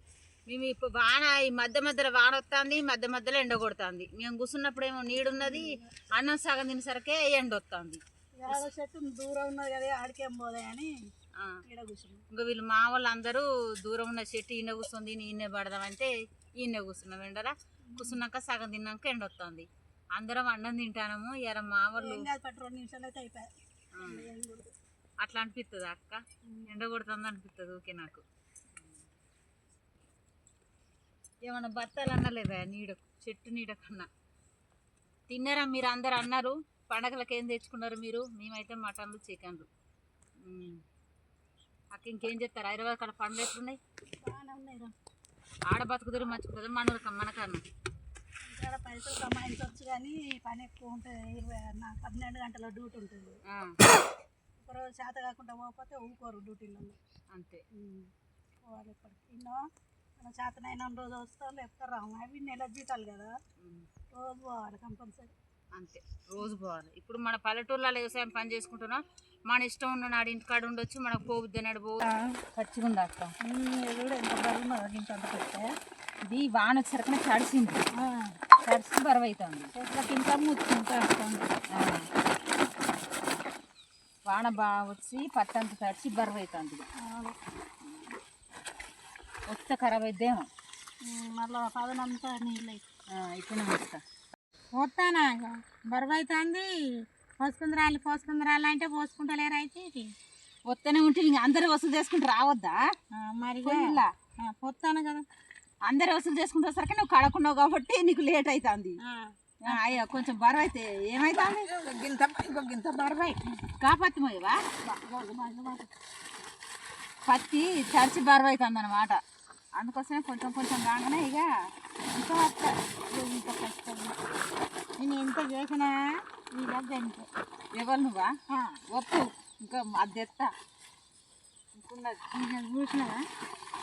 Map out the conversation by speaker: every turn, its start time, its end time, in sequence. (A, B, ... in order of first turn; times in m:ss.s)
0:00.5-0:08.6 A
0:05.4-0:05.9 B
0:08.4-0:10.9 B
0:11.7-0:12.2 B
0:12.3-0:22.3 A
0:17.9-0:18.2 B
0:22.0-0:24.7 B
0:24.0-0:24.3 A
0:25.2-0:28.2 A
0:31.4-0:34.1 A
0:35.3-0:39.7 A
0:40.4-0:40.8 A
0:41.9-0:43.8 A
0:44.2-0:44.9 B
0:45.7-0:47.6 A
0:48.5-0:53.4 B
0:53.5-0:53.8 A
0:54.6-0:57.0 B
0:57.3-0:57.6 A
0:57.7-0:58.1 B
0:58.6-0:59.6 B
1:00.2-1:03.3 B
1:03.6-1:03.9 A
1:04.1-1:05.3 B
1:05.8-1:12.0 A
1:12.1-1:12.3 B
1:12.6-1:13.3 A
1:13.4-1:15.7 B
1:16.2-1:17.8 A
1:18.0-1:18.4 B
1:18.6-1:19.7 A
1:19.8-1:21.5 B
1:21.7-1:22.1 A
1:24.3-1:26.9 A
1:27.0-1:27.4 B
1:29.5-1:30.5 A
1:31.0-1:32.8 B
1:33.1-1:34.0 A
1:34.8-1:40.1 C
1:40.7-1:42.8 A
1:43.1-1:45.2 C
1:43.6-1:44.1 A
1:45.8-1:49.0 A
1:49.0-1:50.0 C
1:49.6-1:51.7 A
1:51.4-1:53.6 C
1:53.8-1:54.6 A
1:54.8-1:55.9 C
1:57.3-1:59.2 A
1:59.8-2:01.5 A
2:02.2-2:04.2 C
2:05.0-2:07.3 C
2:07.7-2:08.3 A
2:08.5-2:08.8 C
2:08.9-2:10.5 A
2:11.7-2:12.2 A
2:12.3-2:13.2 C